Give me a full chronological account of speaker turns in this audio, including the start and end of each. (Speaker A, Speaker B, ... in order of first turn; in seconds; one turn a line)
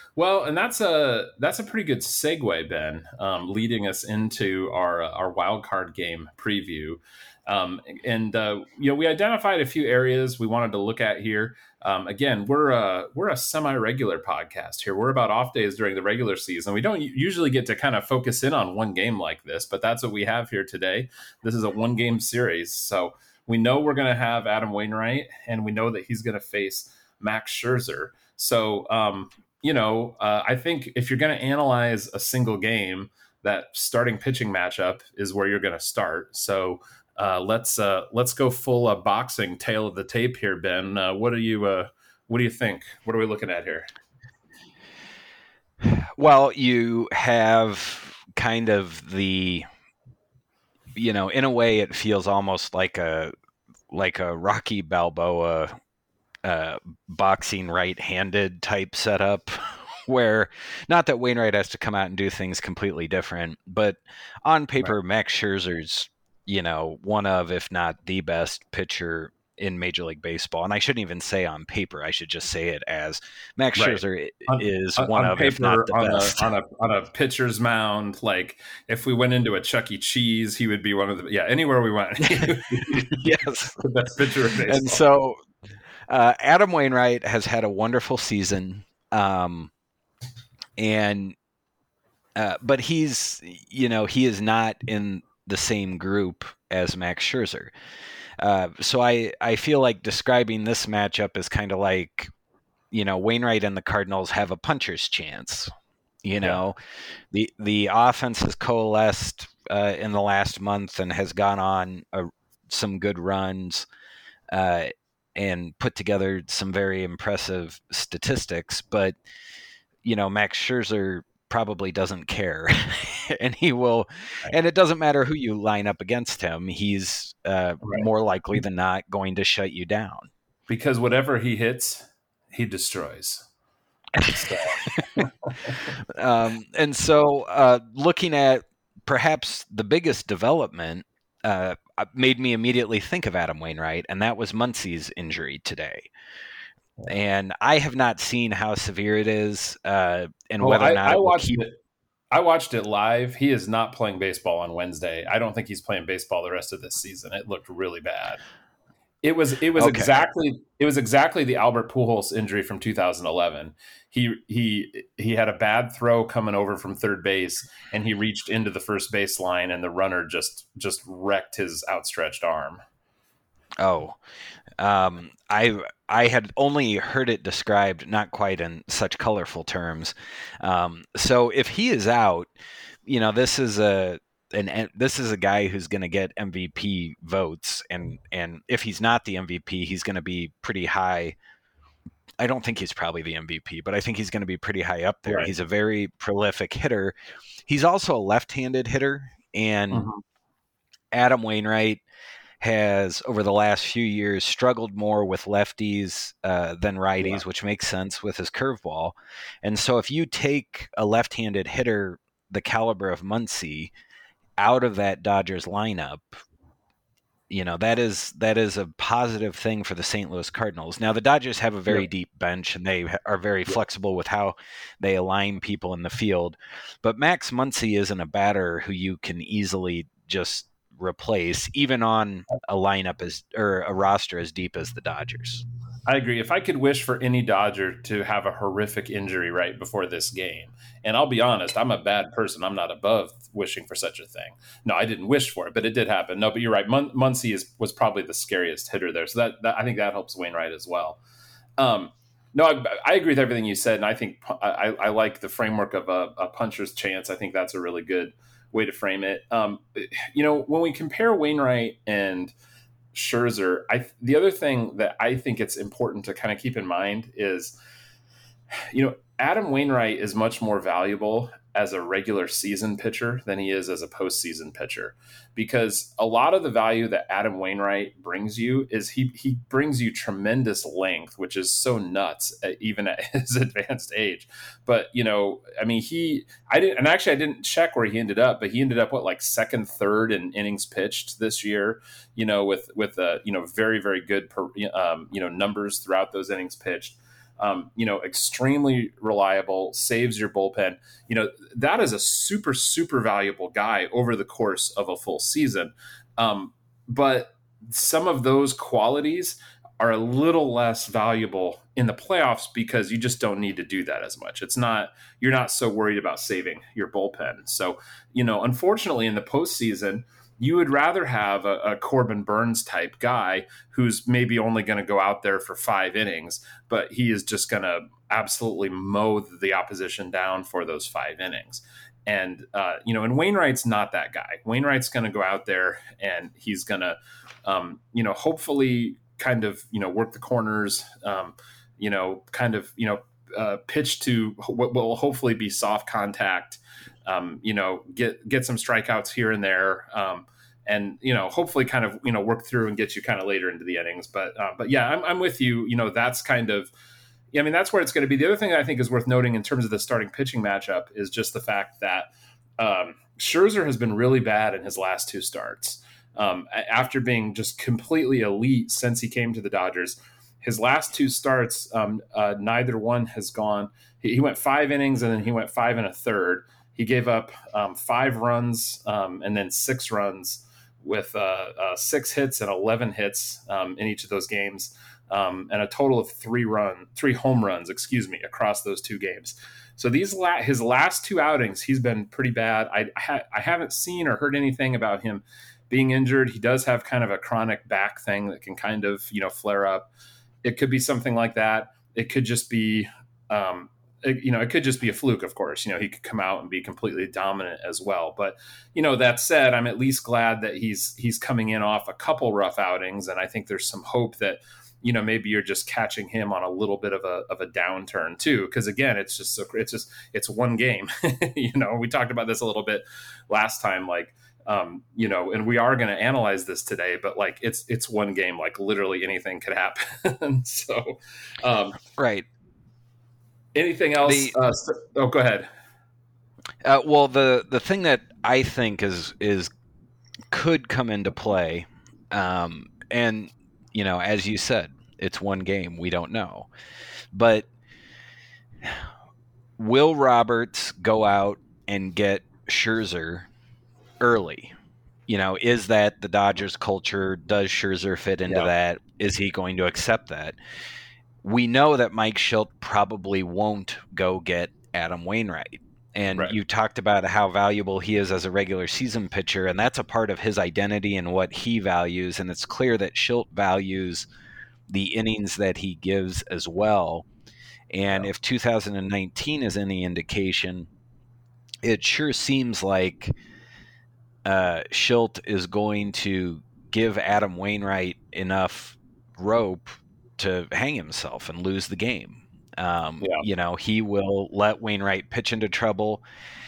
Speaker A: 0.1-43.9
Speaker B: 45.8-49.6
Speaker B: 51.0-53.3
Speaker B: 53.9-55.7
Speaker B: 56.4-76.5
Speaker A: 73.8-83.2
Speaker B: 82.4-83.8
Speaker A: 83.8-85.0
Speaker B: 84.7-85.4
Speaker B: 86.1-89.7
Speaker B: 90.8-91.4
Speaker B: 92.4-97.7
Speaker B: 98.4-102.3
Speaker B: 102.9-105.7
Speaker B: 106.2-106.8
Speaker B: 107.3-113.9
Speaker B: 114.5-119.1
Speaker B: 120.0-130.3
Speaker A: 130.7-133.4
Speaker A: 134.2-135.8
Speaker B: 134.2-135.2
Speaker B: 136.0-146.1
Speaker B: 147.1-151.6
Speaker A: 150.6-151.7
Speaker A: 152.3-158.4
Speaker A: 159.2-172.8
Speaker B: 159.8-160.1
Speaker B: 173.8-174.2
Speaker B: 174.8-182.5
Speaker B: 183.1-191.4
Speaker B: 192.4-197.1
Speaker A: 195.3-195.5
Speaker B: 197.7-200.1
Speaker A: 199.9-200.2
Speaker B: 201.1-202.0
Speaker B: 202.6-213.9
Speaker B: 214.6-216.4
Speaker B: 217.5-235.6
Speaker A: 236.1-251.2
Speaker A: 251.8-262.5
Speaker A: 263.1-267.8
Speaker A: 268.7-356.9
Speaker A: 357.5-400.1
Speaker A: 400.6-432.0
Speaker B: 432.2-432.4
Speaker A: 433.7-435.7
Speaker B: 434.2-434.6
Speaker B: 436.8-439.7
Speaker B: 440.5-446.7
Speaker B: 447.3-447.7
Speaker B: 449.8-453.5
Speaker B: 454.2-454.7
Speaker B: 455.3-460.6
Speaker B: 461.4-474.3
Speaker B: 474.9-477.2
Speaker B: 477.9-480.9
Speaker B: 481.8-483.3
Speaker B: 484.4-496.2